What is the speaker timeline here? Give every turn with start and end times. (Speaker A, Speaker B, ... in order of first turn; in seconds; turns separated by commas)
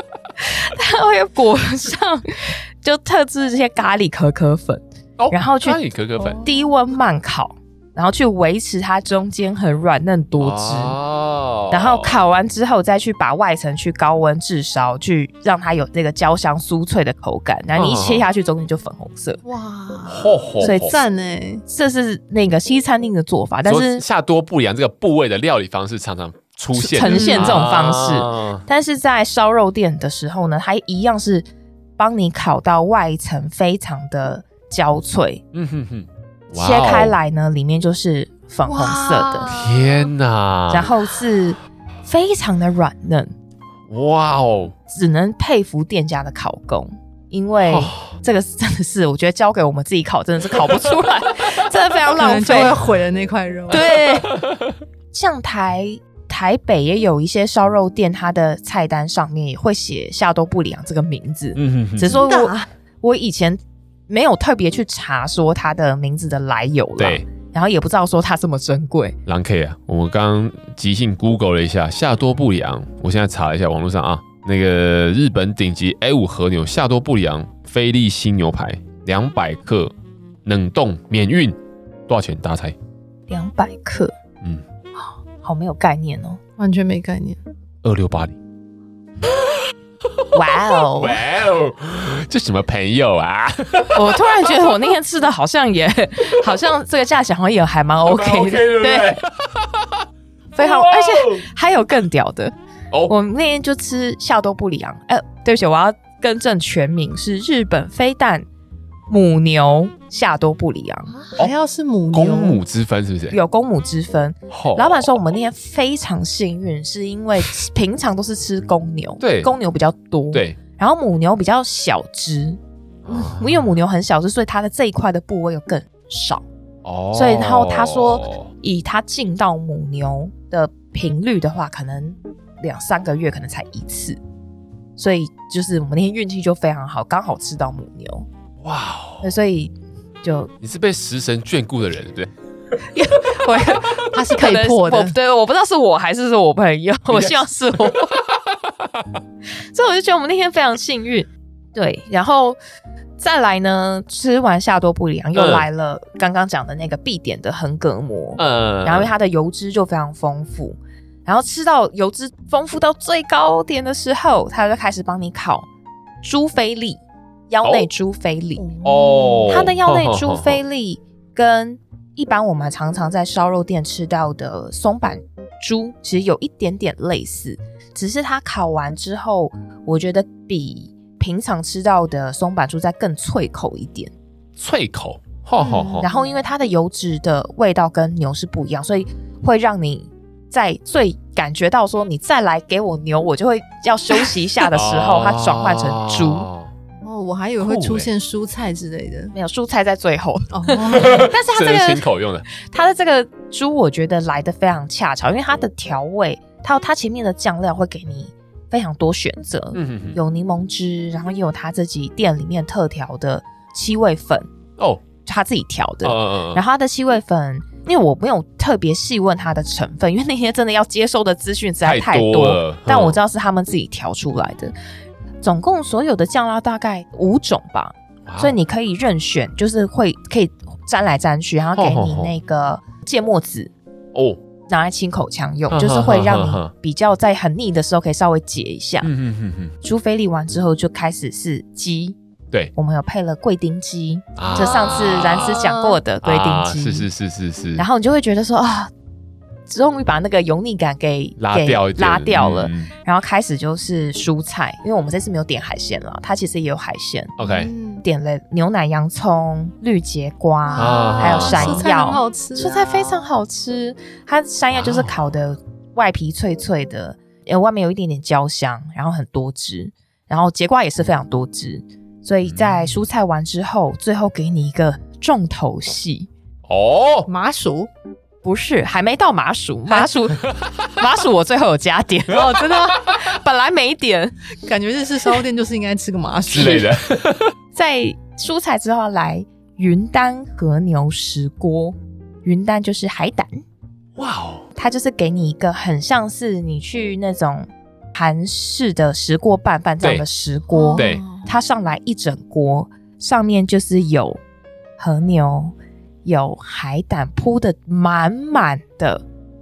Speaker A: 0.4-5.8, Speaker B: 5.2-6.4, Speaker A: 6.3-11.0, Speaker B: 10.4-12.2, Speaker A: 11.7-19.4, Speaker B: 17.8-18.3, Speaker C: 19.4-21.6, Speaker B: 20.1-20.9, Speaker A: 20.6-20.9, Speaker A: 21.7-24.0, Speaker B: 23.7-28.6, Speaker A: 26.7-31.5, Speaker C: 27.1-27.6, Speaker A: 32.0-35.4, Speaker B: 35.5-37.2, Speaker A: 36.5-39.5, Speaker C: 38.7-39.9, Speaker B: 39.5-40.9, Speaker A: 40.7-43.3, Speaker B: 43.9-44.8, Speaker A: 44.9-52.8, Speaker B: 47.6-48.1, Speaker C: 52.1-54.0, Speaker A: 53.7-54.4, Speaker B: 54.1-54.7, Speaker A: 55.1-69.2, Speaker B: 61.6-62.2, Speaker C: 62.1-62.7, Speaker B: 67.0-67.2, Speaker B: 69.3-79.9, Speaker B: 80.5-81.6, Speaker B: 82.1-82.8, Speaker A: 83.3-84.1, Speaker A: 85.4-86.4, Speaker C: 86.6-87.4, Speaker B: 87.8-88.4, Speaker B: 90.2-94.5, Speaker A: 90.3-91.2, Speaker A: 93.9-99.2, Speaker B: 98.0-100.1, Speaker A: 100.5-102.5, Speaker B: 100.6-101.5, Speaker A: 103.1-108.5, Speaker A: 109.1-111.2, Speaker C: 111.2-112.6, Speaker B: 112.1-113.4, Speaker A: 113.3-126.5, Speaker B: 114.5-115.1, Speaker B: 119.2-119.5, Speaker B: 120.3-120.6, Speaker B: 123.0-123.7, Speaker B: 126.8-128.5, Speaker A: 127.1-134.2, Speaker A: 135.0-138.3, Speaker B: 138.6-139.3, Speaker A: 139.2-140.5, Speaker B: 140.6-142.3, Speaker A: 143.0-148.2, Speaker C: 143.2-145.2, Speaker B: 147.9-149.1, Speaker A: 149.7-152.6, Speaker A: 153.2-165.7, Speaker B: 155.3-155.7, Speaker B: 158.4-159.1, Speaker A: 166.2-168.7, Speaker B: 167.6-167.9, Speaker C: 168.6-169.6, Speaker B: 168.8-170.6, Speaker A: 169.5-184.1, Speaker B: 184.6-186.1, Speaker C: 185.6-186.3, Speaker A: 186.0-196.5, Speaker B: 194.7-196.7, Speaker C: 197.0-199.3, Speaker B: 197.6-198.1, Speaker A: 199.3-202.0, Speaker C: 200.5-201.3, Speaker B: 200.9-202.4, Speaker A: 202.6-214.5, Speaker B: 209.7-210.2, Speaker B: 214.8-215.0, Speaker A: 215.2-224.7, Speaker B: 216.0-216.6, Speaker B: 221.8-223.2, Speaker A: 225.4-233.7, Speaker B: 228.3-228.6, Speaker B: 231.8-232.3, Speaker B: 234.1-234.4, Speaker A: 234.7-239.1, Speaker B: 235.7-236.7, Speaker B: 239.0-239.8, Speaker A: 239.8-242.2, Speaker A: 242.8-247.1, Speaker B: 244.4-245.7, Speaker C: 245.5-246.0, Speaker B: 246.2-247.8, Speaker A: 247.8-248.9, Speaker A: 249.7-257.4, Speaker B: 251.4-252.9, Speaker B: 257.4-257.7, Speaker C: 257.4-258.1, Speaker A: 258.0-276.3, Speaker C: 260.7-263.2, Speaker B: 260.8-261.9, Speaker B: 264.7-265.2, Speaker B: 272.4-273.0, Speaker B: 276.7-277.3, Speaker C: 277.3-277.9, Speaker A: 278.4-284.4, Speaker B: 280.4-280.8, Speaker C: 282.3-283.1, Speaker C: 284.6-286.9, Speaker B: 286.5-287.5, Speaker A: 287.8-293.6, Speaker B: 294.2-294.7, Speaker A: 294.8-304.4, Speaker C: 300.7-301.5, Speaker B: 300.9-301.2, Speaker A: 305.0-305.7, Speaker A: 306.2-309.2